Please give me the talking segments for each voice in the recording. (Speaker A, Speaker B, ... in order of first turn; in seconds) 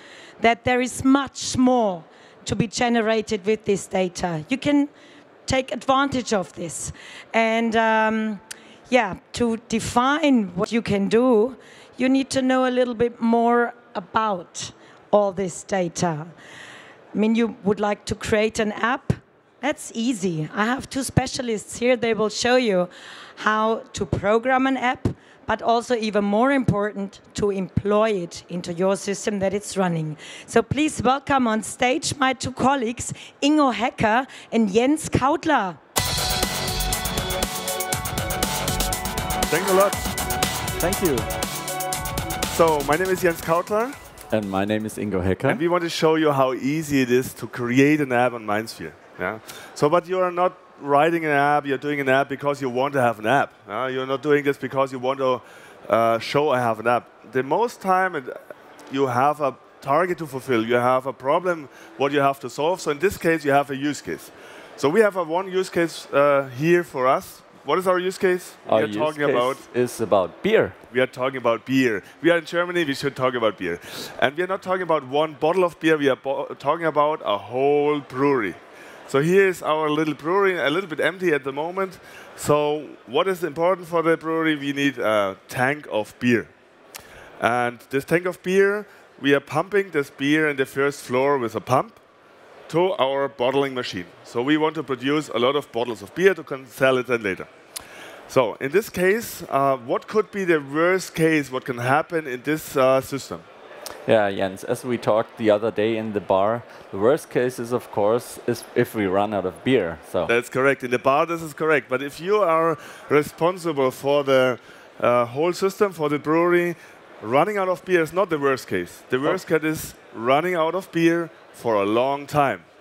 Speaker A: 0.4-4.9, 5.5-16.3, 17.1-35.8
Speaker B: 39.5-40.1, 42.5-44.0, 45.5-58.3, 58.9-69.6, 70.9-86.5, 87.4-92.0, 92.7-97.5, 98.3-103.5, 110.3-122.6
Speaker C: 40.8-41.3, 44.3-45.6, 68.7-70.8, 104.1-110.3